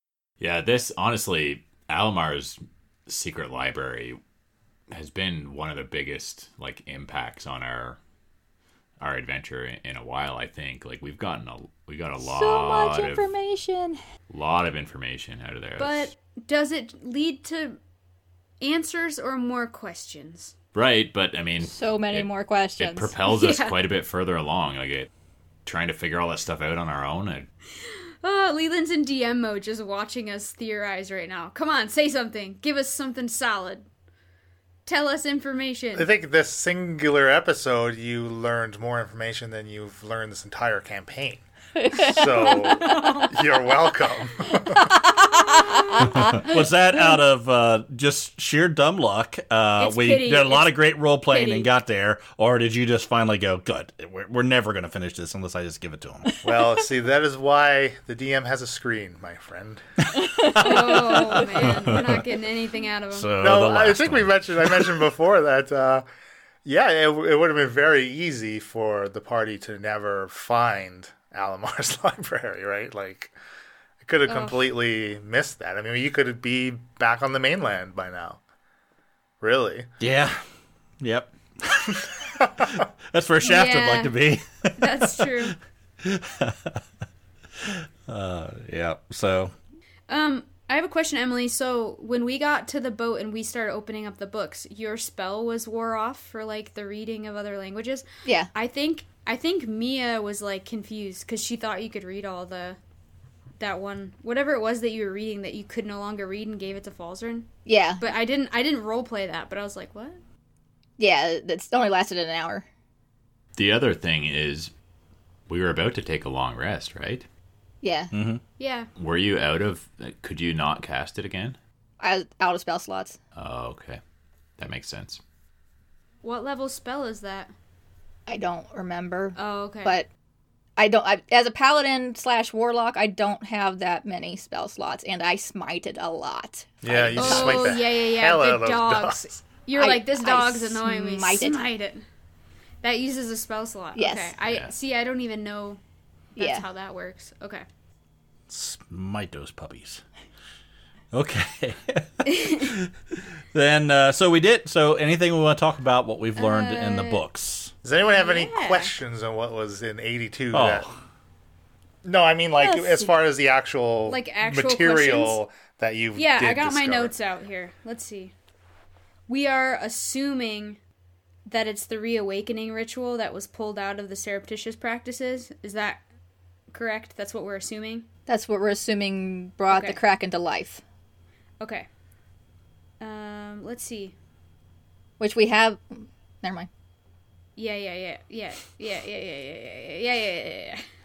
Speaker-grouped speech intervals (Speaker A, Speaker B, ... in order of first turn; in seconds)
Speaker A: 0.4-4.2, 4.9-8.0, 9.0-13.2, 14.3-16.1, 20.7-25.1, 25.6-27.5, 113.5-114.7, 115.5-117.2, 119.0-121.6, 123.3-124.0, 124.6-125.2, 144.4-144.7
Speaker B: 12.2-14.0, 21.6-23.1, 41.8-42.9, 44.7-46.5, 107.7-108.0, 111.0-112.6, 117.8-118.1, 122.0-123.2, 128.3-130.1, 130.8-137.8, 139.8-141.6, 143.9-144.3, 146.4-146.6, 162.6-163.1, 178.3-180.8, 185.2-186.7
Speaker C: 15.8-17.8, 18.6-20.5, 23.2-23.8, 27.8-33.9, 34.9-36.1, 42.6-43.4, 45.5-45.9, 49.8-51.7, 60.5-63.3, 74.2-74.6, 83.4-84.2, 84.8-85.5, 90.1-102.8, 103.6-107.5, 108.0-110.2, 118.6-118.9, 126.2-127.5, 129.3-129.9, 137.1-142.0, 142.8-145.8, 146.4-147.6, 152.2-152.7, 156.3-157.2, 158.1-158.9, 164.1-165.4, 166.1-168.3, 169.3-170.8, 171.5-176.0, 176.7-178.1, 179.7-180.0, 181.6-181.9, 183.0-184.1, 187.6-190.8
Speaker D: 36.0-45.0, 56.4-59.8, 63.4-66.0, 66.6-73.3, 74.0-78.4, 79.4-79.9, 82.3-82.8, 136.8-139.3, 157.8-160.8, 162.0-167.1
Speaker E: 46.1-56.3, 60.2-62.2, 63.1-65.1, 80.0-80.4, 81.0-86.8, 87.6-89.5, 118.1-118.4, 148.5-150.0, 151.1-157.7, 160.5-161.0